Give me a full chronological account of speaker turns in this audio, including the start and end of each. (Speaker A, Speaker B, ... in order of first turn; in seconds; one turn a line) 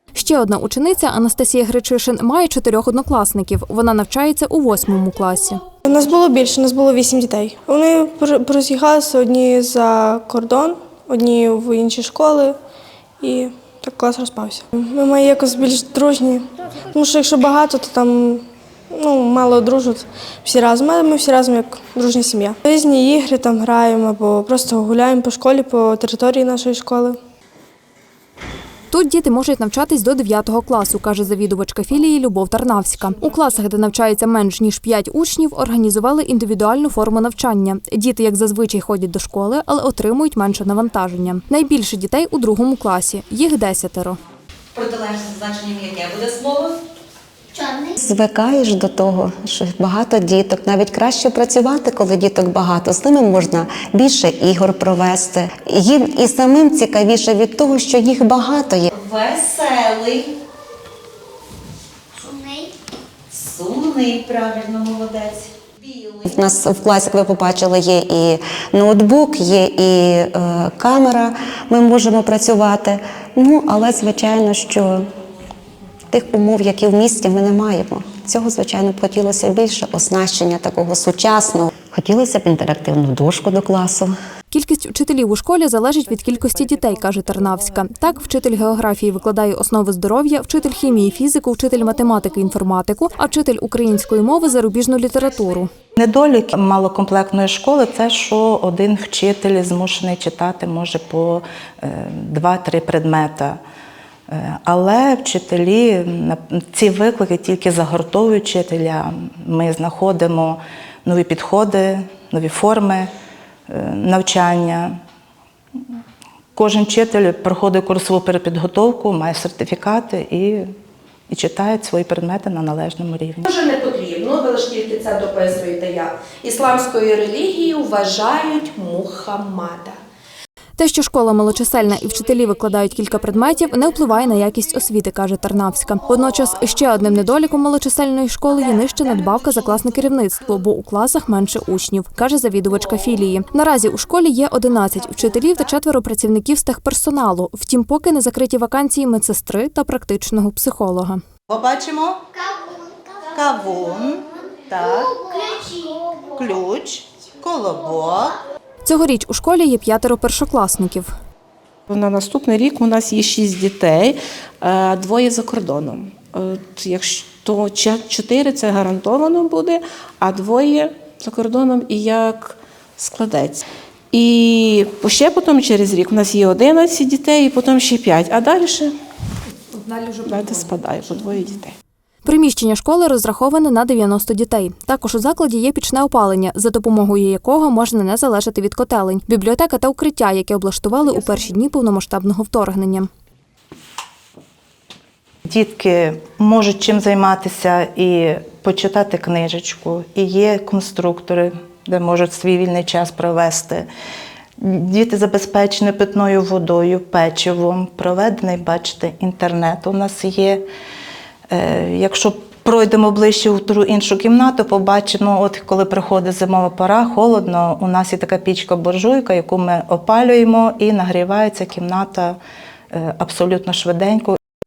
Speaker A: 0.1-5.6
Speaker B: 5.8-12.6
Speaker B: 13.2-27.2
Speaker A: 28.9-44.2
Speaker C: 44.7-46.8
Speaker D: 48.0-58.9
Speaker C: 58.9-60.3
Speaker C: 63.3-66.2
Speaker D: 66.2-75.1
Speaker D: 76.1-84.1
Speaker A: 84.5-95.7
Speaker E: 96.0-103.6
Speaker E: 104.3-113.1
Speaker E: 113.7-115.0
Speaker E: 116.5-120.7
Speaker E: 121.3-123.4
Speaker F: 123.4-130.0
Speaker A: 130.8-151.2
Speaker E: 151.5-152.2
Speaker E: 153.2-158.4
Speaker A: 158.8-161.1
Speaker G: 161.9-178.9
Speaker G: 179.9-181.7
Speaker A: 182.2-193.1
Speaker E: 195.4-203.9
Speaker E: 204.6-210.6
Speaker E: 211.5-222.4
Speaker E: 222.9-224.4